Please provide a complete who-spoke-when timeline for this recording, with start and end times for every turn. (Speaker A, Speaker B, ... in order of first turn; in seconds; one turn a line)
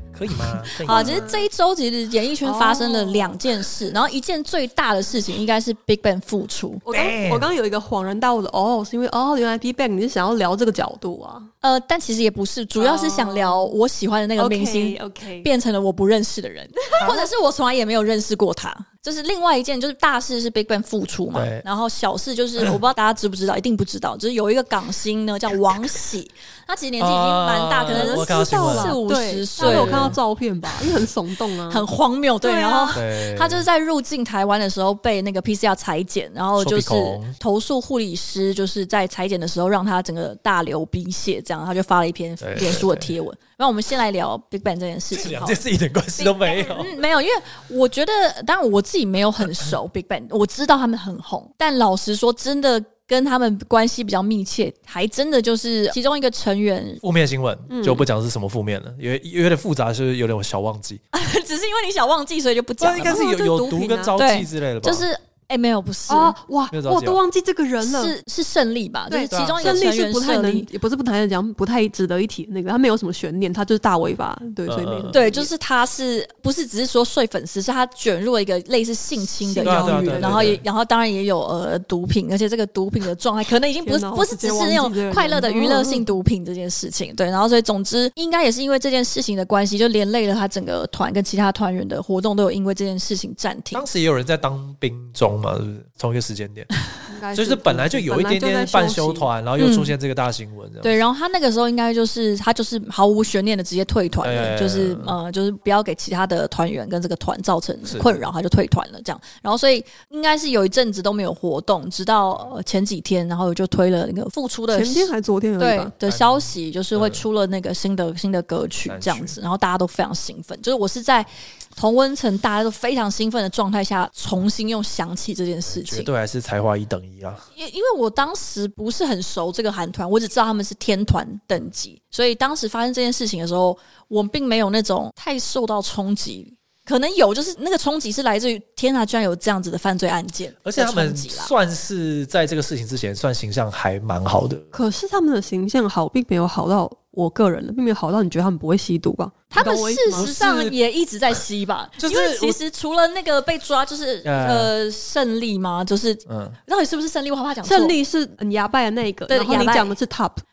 Speaker A: 0.1-1.5
Speaker B: 0.3-6.8
Speaker C: 0.8-1.2
Speaker C: 2.4-3.4
Speaker C: 6.9-11.5
Speaker A: 6.9-7.5
Speaker B: 11.6-30.2
Speaker C: 12.8-13.8
Speaker C: 14.4-15.5
Speaker A: 17.0-17.3
Speaker A: 21.3-21.6
Speaker A: 27.0-29.0
Speaker C: 27.9-31.9
Speaker A: 29.6-30.2
Speaker B: 31.7-45.6
Speaker C: 32.4-33.0
Speaker A: 32.9-33.7
Speaker A: 36.6-37.4
Speaker A: 42.4-43.1
Speaker A: 45.1-47.0
Speaker B: 46.2-57.0
Speaker A: 57.0-61.0
Speaker C: 57.7-58.1
Speaker B: 61.1-63.2
Speaker A: 62.8-65.1
Speaker C: 63.0-64.2
Speaker B: 64.2-66.3
Speaker C: 66.1-68.2
Speaker A: 66.7-67.2
Speaker B: 67.8-70.7
Speaker C: 69.1-75.5
Speaker A: 69.3-69.8
Speaker A: 74.7-75.2
Speaker B: 75.1-93.9
Speaker C: 79.2-80.6
Speaker A: 79.6-80.6
Speaker C: 83.8-86.1
Speaker A: 93.7-96.7
Speaker C: 97.1-99.3
Speaker A: 97.3-101.0
Speaker B: 99.6-100.0
Speaker B: 100.8-126.1
Speaker A: 104.2-105.2
Speaker A: 107.9-108.2
Speaker C: 114.7-115.9
Speaker A: 116.0-117.2
Speaker A: 118.9-119.4
Speaker A: 125.7-127.5
Speaker B: 127.6-141.5
Speaker A: 140.7-144.7
Speaker C: 144.7-150.3
Speaker B: 149.5-158.0
Speaker A: 150.1-150.8
Speaker A: 152.0-152.6
Speaker A: 154.2-154.7
Speaker A: 156.3-156.6
Speaker C: 157.6-160.4
Speaker B: 159.3-160.0